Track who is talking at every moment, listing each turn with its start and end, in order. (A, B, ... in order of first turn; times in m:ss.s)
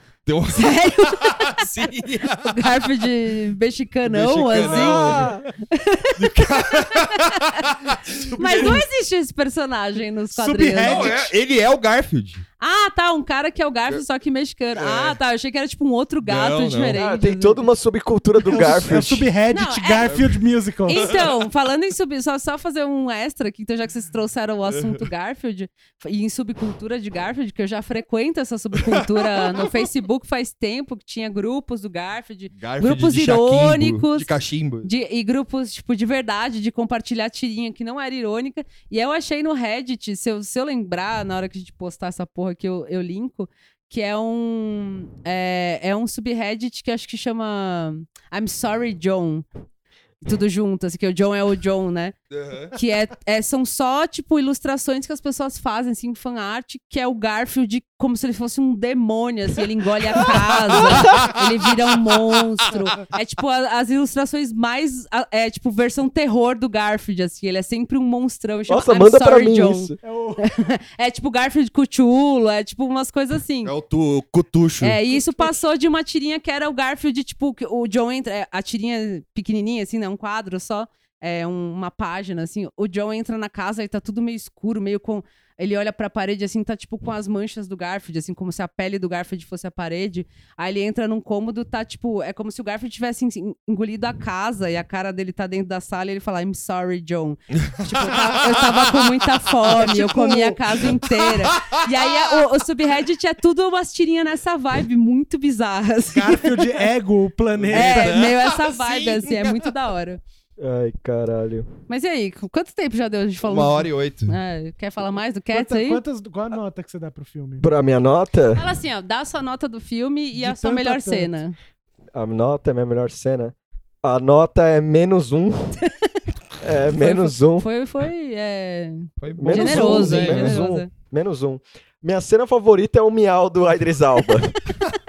0:00.3-0:02.8 A
0:00.5-0:07.7 B
0:04.0-0:05.4 A
0:04.6-0:05.5 C
0:06.2-0:08.8 A
0:08.1-0:08.8 D
0:08.4-0:11.2 B
0:10.3-0:11.4 D
0:10.8-0:12.4 A
0:12.6-0:17.6 B
0:14.8-0:15.1 A
0:16.2-0:17.0 A
0:16.9-0:19.3 C
0:18.4-0:21.2 D
0:19.5-0:20.2 B
0:20.0-0:20.4 A
0:20.8-0:34.3 B
0:28.9-0:29.7 A
0:32.5-0:34.9 A
0:34.8-0:49.5 B
0:50.2-0:52.2 B
0:52.3-0:52.7 A
0:52.7-1:13.7 B
1:00.2-1:02.3 A
1:02.7-1:03.1 D
1:08.7-1:10.0 C
1:10.0-1:10.5 D
1:13.6-1:15.0 A
1:14.8-1:46.8 B
1:15.1-1:15.6 D
1:37.6-1:38.8 A
1:39.7-1:42.4 A
1:46.1-1:48.2 D
1:47.6-1:49.7 A
1:47.7-1:50.2 B
1:50.6-1:51.7 C
1:51.9-1:56.0 B
1:53.4-1:54.4 A
1:55.5-1:57.7 D
1:57.6-1:58.6 C
1:58.5-2:01.6 B
2:00.3-2:01.3 D
2:02.1-2:05.8 C
2:06.6-2:07.6 C
2:06.9-2:10.9 B
2:09.2-2:10.6 A
2:09.4-2:14.6 C